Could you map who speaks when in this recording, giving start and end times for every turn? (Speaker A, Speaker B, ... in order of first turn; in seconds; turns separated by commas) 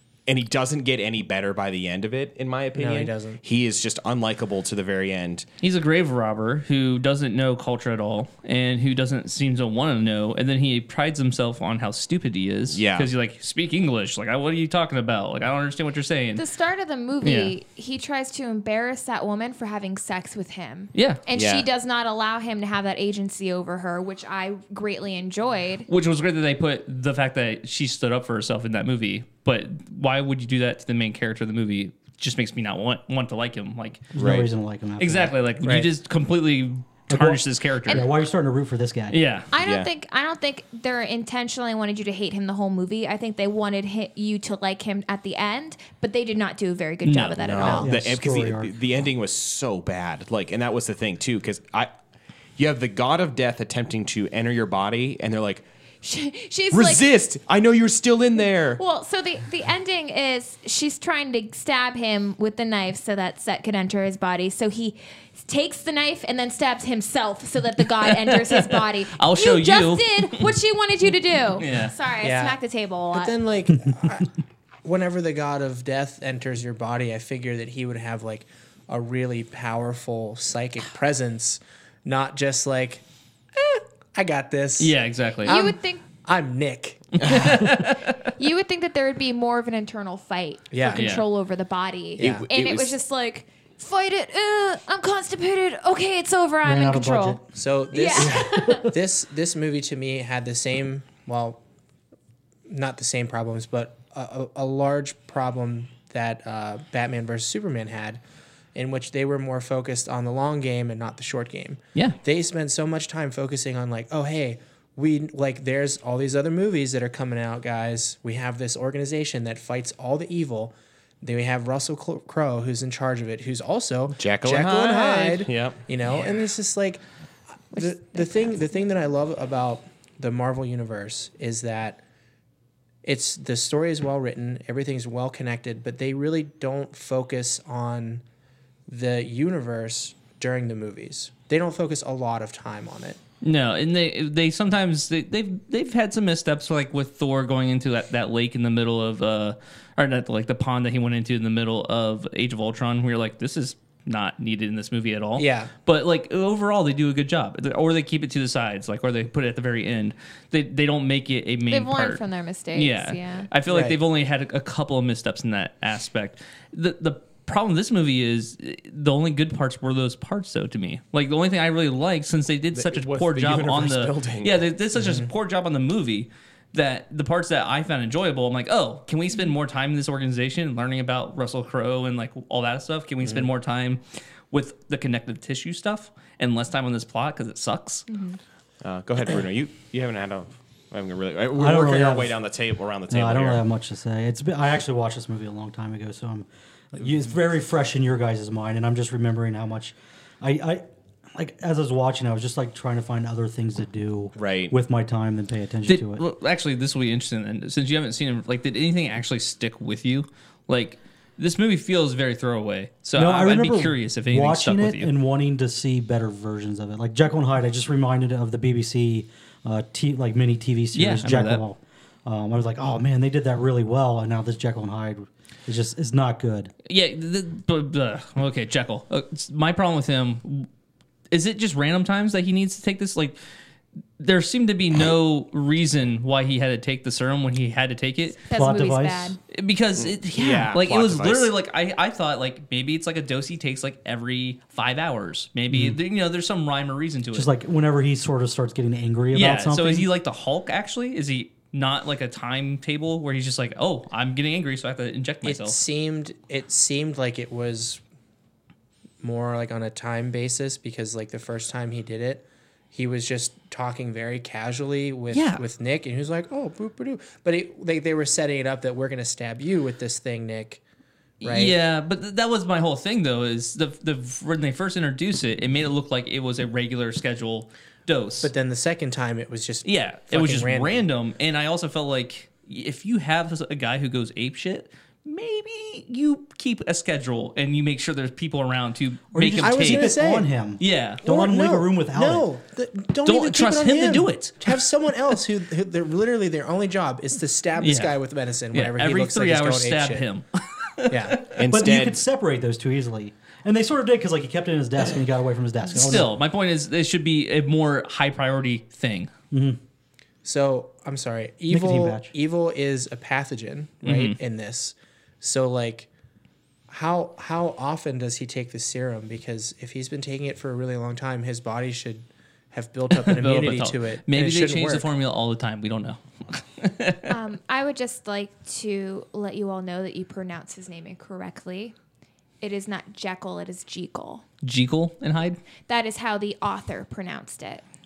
Speaker A: 0.3-5.5, Speaker B: 2.7-3.4, Speaker C: 5.6-16.4, Speaker A: 12.7-13.1, Speaker D: 16.4-25.9, Speaker C: 17.2-17.5, Speaker C: 20.9-21.2, Speaker A: 21.3-21.7, Speaker C: 25.9-34.2, Speaker E: 34.1-35.3, Speaker A: 34.2-34.5, Speaker C: 35.0-38.1, Speaker B: 35.6-35.9, Speaker E: 37.1-39.2, Speaker C: 39.1-39.5, Speaker D: 39.5-47.9, Speaker A: 39.6-39.9, Speaker C: 47.0-47.8, Speaker A: 47.4-51.9, Speaker E: 47.7-48.7, Speaker A: 52.6-55.6, Speaker D: 56.0-57.0, Speaker A: 56.7-58.8, Speaker D: 58.8-73.3, Speaker C: 68.0-70.5, Speaker C: 71.6-71.9, Speaker B: 72.2-72.6, Speaker B: 73.1-83.0, Speaker B: 84.1-87.7, Speaker C: 84.8-85.6, Speaker D: 85.5-86.0, Speaker C: 87.2-88.3, Speaker A: 87.2-87.5, Speaker D: 88.2-98.9, Speaker B: 90.7-91.2, Speaker C: 90.9-91.2, Speaker B: 92.2-92.5, Speaker A: 92.2-92.9, Speaker E: 96.6-97.5, Speaker B: 97.5-101.6, Speaker E: 98.6-98.9, Speaker B: 102.7-108.2, Speaker B: 108.8-127.0, Speaker A: 124.2-125.8, Speaker B: 127.7-132.0, Speaker D: 127.8-128.2, Speaker B: 133.0-138.2, Speaker B: 138.9-143.2, Speaker C: 143.4-162.2, Speaker B: 155.4-155.7, Speaker D: 161.7-163.5, Speaker C: 162.7-188.1, Speaker B: 163.7-164.0, Speaker A: 172.7-174.6, Speaker B: 174.9-175.3, Speaker D: 188.1-188.4, Speaker A: 188.8-193.6, Speaker E: 191.6-192.4, Speaker E: 193.1-206.2, Speaker A: 204.4-204.7, Speaker C: 205.9-215.1, Speaker E: 213.2-226.7, Speaker C: 220.9-221.6, Speaker C: 226.9-230.7, Speaker C: 231.3-233.4, Speaker C: 234.2-238.4, Speaker D: 238.4-239.4, Speaker E: 238.5-239.4, Speaker C: 239.5-247.5, Speaker A: 240.0-241.5, Speaker E: 245.7-246.0, Speaker E: 247.3-250.1, Speaker C: 249.3-255.8, Speaker B: 255.4-258.0, Speaker B: 259.2-270.8, Speaker C: 265.3-265.6, Speaker C: 271.4-278.5, Speaker B: 271.4-271.8, Speaker B: 278.4-281.1, Speaker C: 279.8-290.1, Speaker E: 289.3-292.5, Speaker B: 289.6-290.5, Speaker C: 290.8-291.2, Speaker B: 291.2-300.3, Speaker C: 293.2-294.8, Speaker C: 297.8-298.2, Speaker C: 298.7-301.4, Speaker B: 301.1-301.5, Speaker A: 301.5-302.2, Speaker E: 301.7-306.3, Speaker C: 305.9-309.3, Speaker E: 309.5-309.8, Speaker B: 310.4-316.1, Speaker E: 311.7-312.3, Speaker C: 314.1-314.4, Speaker B: 316.9-325.1, Speaker C: 323.1-327.3, Speaker D: 327.3-331.9, Speaker D: 332.6-334.4, Speaker C: 334.6-335.6, Speaker D: 335.9-337.8